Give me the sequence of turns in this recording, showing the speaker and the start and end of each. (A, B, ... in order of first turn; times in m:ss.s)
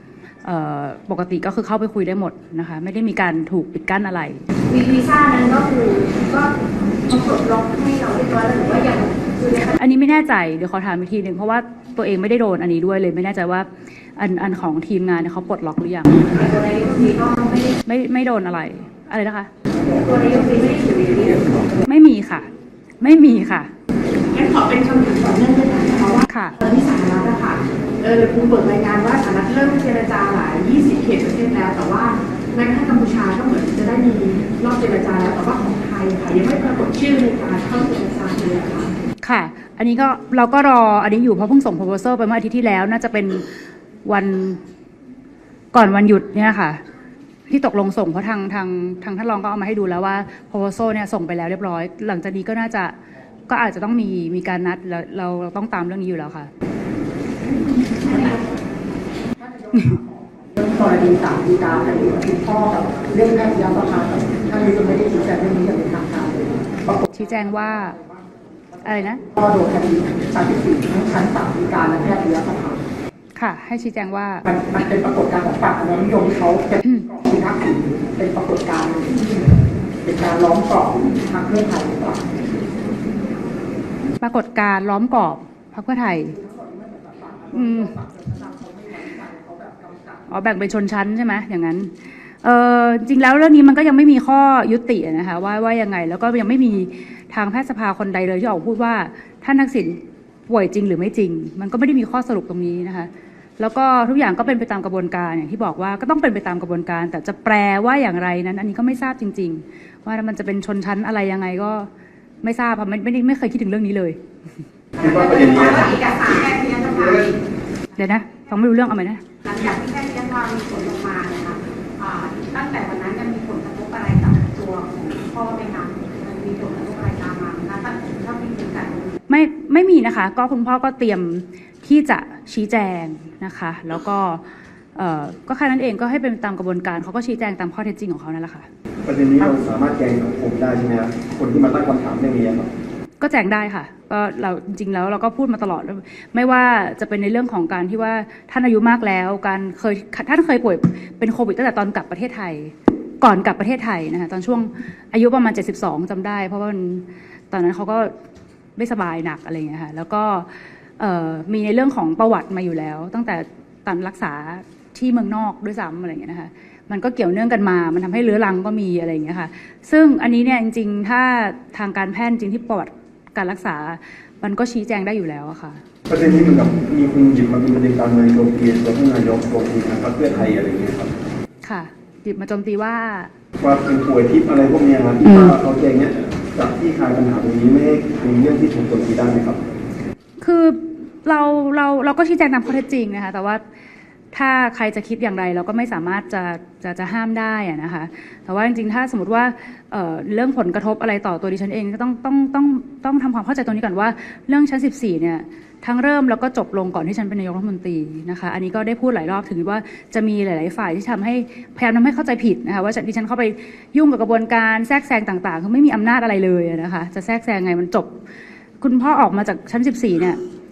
0:00.4-0:04.5 A
0:04.7-0:09.8 B
0:09.7-0:16.4 A
0:16.3-0:17.8 B
0:17.8-0:19.5 A
0:19.9-0:21.7 B
0:21.8-0:23.7 A
0:24.3-0:38.9 B
0:26.2-0:26.6 A
0:39.2-0:44.6 A
0:45.7-0:46.8 A
0:47.5-0:53.0 A
0:53.5-0:56.5 A
0:58.0-0:58.4 B
0:59.4-1:07.1 C
1:07.1-1:08.0 A
1:08.8-1:09.2 A
1:09.2-1:12.8 C
1:13.4-1:14.4 A
1:14.5-1:19.5 C
1:16.8-1:17.1 A
1:20.0-1:22.4 C
1:24.2-1:26.4 A
1:26.4-1:30.1 C
1:27.5-1:28.0 A
1:30.3-1:51.9 A
1:52.4-1:54.2 A
1:55.0-1:57.4 B
1:55.0-1:55.9 D
1:58.0-1:59.2 A
1:59.4-2:09.2 B
2:09.3-2:14.4 A
2:14.9-2:18.7 A
2:19.0-2:22.7 D
2:23.2-2:38.1 A
2:38.8-2:55.8 A
2:56.1-3:01.1 D
3:01.6-3:03.3 A
3:03.6-3:09.6 D
3:05.3-3:05.5 A
3:10.4-3:13.6 A
3:14.3-3:38.1 A
3:38.8-3:40.4 A